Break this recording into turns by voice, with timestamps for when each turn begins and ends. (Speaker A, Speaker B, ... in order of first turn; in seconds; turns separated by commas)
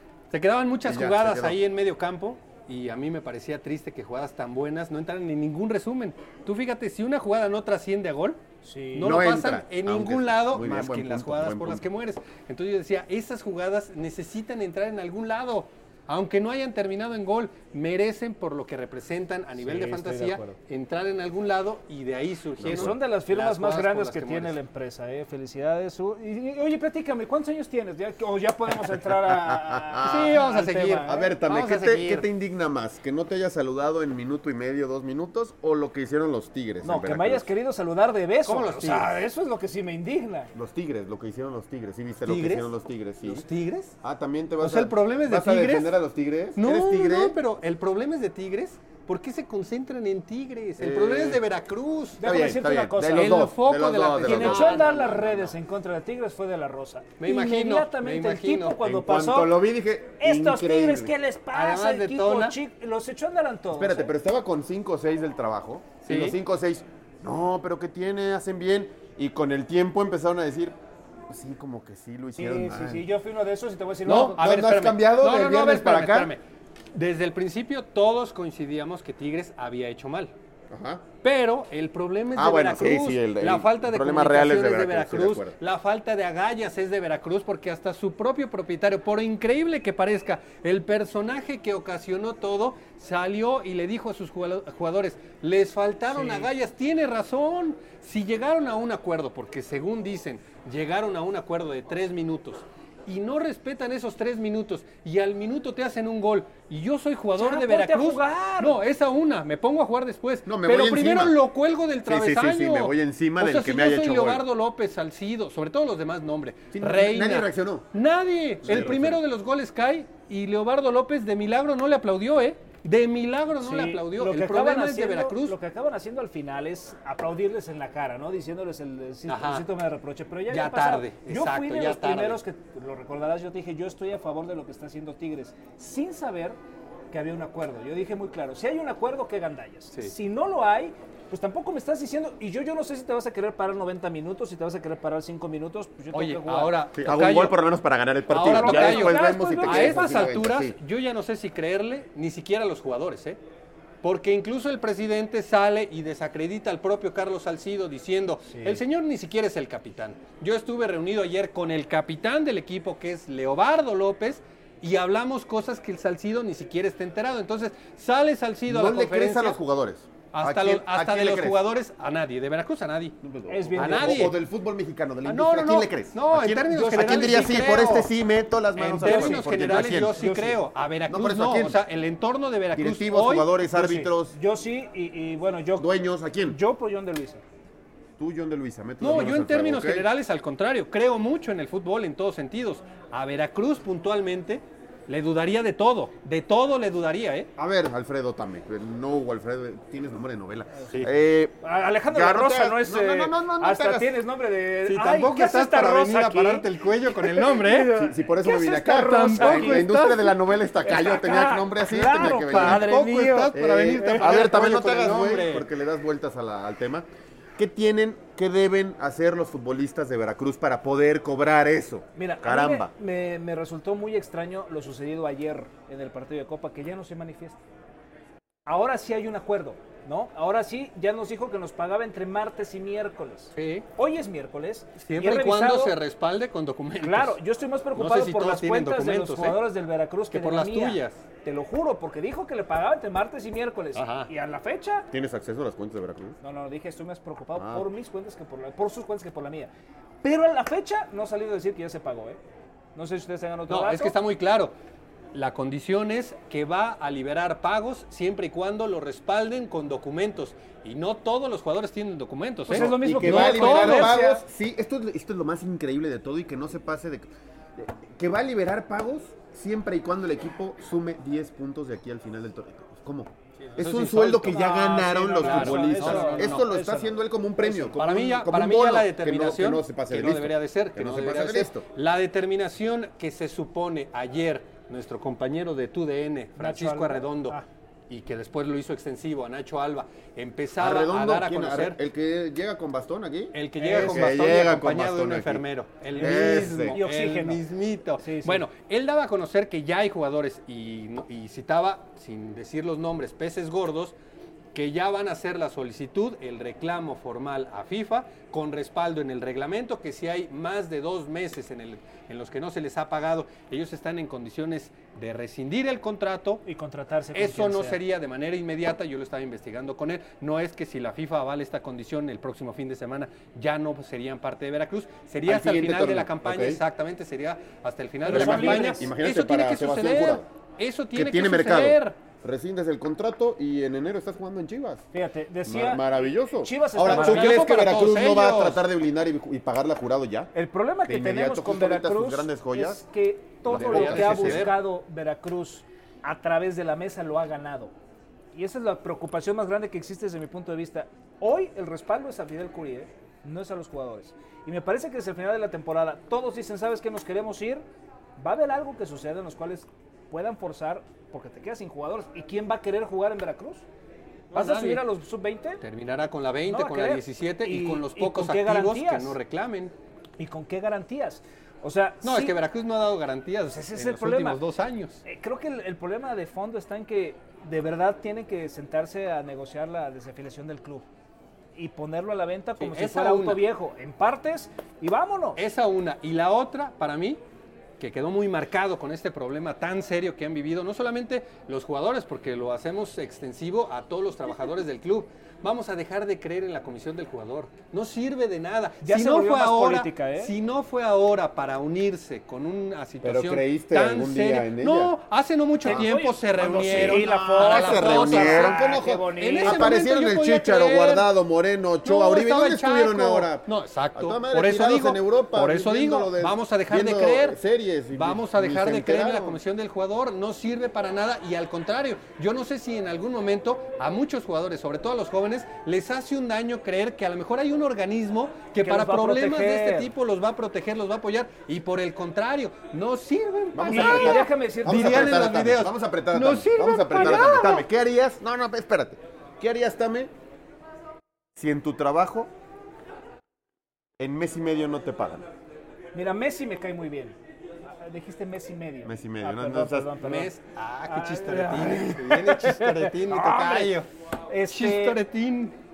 Speaker A: 0.3-8.4, Speaker B: 0.8-1.6, Speaker C: 8.6-9.2, Speaker A: 8.9-24.6, Speaker B: 9.0-11.9, Speaker C: 19.6-20.5, Speaker B: 22.6-22.9, Speaker C: 22.6-31.3, Speaker B: 29.2-30.5, Speaker A: 30.0-32.3, Speaker B: 31.0-37.5, Speaker C: 36.8-40.5, Speaker A: 38.5-39.1, Speaker B: 40.5-43.5, Speaker A: 42.2-42.7, Speaker A: 43.2-43.9, Speaker B: 44.0-47.4, Speaker A: 44.6-46.0, Speaker A: 46.6-52.2, Speaker B: 50.8-51.4, Speaker C: 52.2-53.5, Speaker B: 52.2-55.4, Speaker A: 53.1-55.5, Speaker C: 54.2-59.6, Speaker A: 57.2-58.8, Speaker B: 58.8-61.1, Speaker C: 60.2-64.1, Speaker A: 61.5-62.6, Speaker B: 63.7-70.8, Speaker A: 66.0-66.4, Speaker B: 71.3-73.1, Speaker C: 72.4-74.4, Speaker B: 74.0-76.3, Speaker A: 74.1-76.4, Speaker A: 76.9-80.3, Speaker B: 80.7-81.0, Speaker A: 81.2-125.6, Speaker B: 82.3-85.6, Speaker C: 96.1-96.5, Speaker C: 107.4-108.8, Speaker B: 110.5-111.4, Speaker B: 112.0-114.5, Speaker B: 116.7-117.9, Speaker B: 118.6-119.2, Speaker C: 123.6-136.6, Speaker A: 129.3-129.7, Speaker A: 130.5-132.4, Speaker C: 137.1-146.8, Speaker A: 146.1-147.6, Speaker B: 147.0-150.8, Speaker A: 148.3-153.4, Speaker C: 148.4-150.2, Speaker A: 154.0-169.6, Speaker C: 158.5-158.8, Speaker B: 168.7-171.6, Speaker A: 170.3-173.2, Speaker B: 173.2-180.2, Speaker C: 173.5-174.3, Speaker A: 173.8-174.4, Speaker A: 175.2-178.1, Speaker C: 176.7-178.0, Speaker A: 178.8-184.1, Speaker C: 179.0-180.6, Speaker B: 181.1-181.8, Speaker B: 182.7-184.3, Speaker C: 184.3-185.9, Speaker B: 185.8-186.6, Speaker C: 186.5-187.4, Speaker B: 188.2-190.1, Speaker A: 189.0-197.5, Speaker B: 197.6-201.6, Speaker C: 201.6-210.1, Speaker B: 202.1-204.2, Speaker A: 204.8-207.9, Speaker B: 207.9-212.9, Speaker A: 208.9-210.3, Speaker C: 210.8-214.3, Speaker A: 212.2-215.7, Speaker B: 213.5-222.9, Speaker C: 222.2-227.6, Speaker C: 228.7-236.0, Speaker A: 233.6-233.9, Speaker A: 235.0-237.4, Speaker C: 237.0-245.1, Speaker A: 237.9-239.7, Speaker A: 240.3-241.2, Speaker A: 243.9-244.3, Speaker B: 245.1-246.4, Speaker C: 246.4-249.7, Speaker B: 247.6-247.9, Speaker C: 250.2-252.4, Speaker C: 252.9-254.1, Speaker A: 253.7-254.7, Speaker A: 255.3-264.2, Speaker C: 262.7-264.4, Speaker B: 262.7-281.9, Speaker A: 273.7-276.7, Speaker C: 274.5-278.0, Speaker A: 277.9-292.0, Speaker C: 286.6-287.7, Speaker B: 290.8-295.6, Speaker A: 293.5-304.1, Speaker C: 293.8-294.4, Speaker B: 296.1-297.0, Speaker C: 296.2-297.6, Speaker C: 298.2-298.6, Speaker A: 304.7-316.6, Speaker C: 316.6-318.0, Speaker A: 317.3-332.2, Speaker B: 325.4-326.8, Speaker C: 328.2-329.1, Speaker B: 328.3-330.5, Speaker B: 331.1-335.1, Speaker C: 335.1-337.6, Speaker B: 335.6-340.5, Speaker A: 337.1-338.8, Speaker C: 340.5-347.9, Speaker B: 341.1-343.0, Speaker B: 343.7-344.7, Speaker A: 343.7-344.8, Speaker C: 348.5-357.8, Speaker C: 358.4-363.9, Speaker A: 364.5-365.1, Speaker C: 364.5-365.8, Speaker A: 365.8-369.9, Speaker C: 366.7-369.4, Speaker C: 370.4-372.6, Speaker A: 372.2-375.2, Speaker C: 373.7-374.6, Speaker C: 375.2-381.1, Speaker C: 381.8-385.6, Speaker A: 382.8-383.6, Speaker A: 385.6-387.4, Speaker A: 388.0-408.8, Speaker C: 399.0-400.5, Speaker B: 403.2-405.1, Speaker C: 405.8-410.0, Speaker B: 405.8-419.6, Speaker A: 409.4-411.3, Speaker A: 412.0-417.6, Speaker A: 418.1-437.9, Speaker C: 428.8-430.1, Speaker B: 433.7-440.3, Speaker C: 433.9-435.4, Speaker B: 441.6-442.5, Speaker B: 444.2-445.5, Speaker C: 446.1-447.4, Speaker C: 448.0-450.5, Speaker B: 449.1-450.1, Speaker A: 450.2-454.1, Speaker C: 451.1-453.9, Speaker C: 454.5-455.2, Speaker A: 454.7-455.8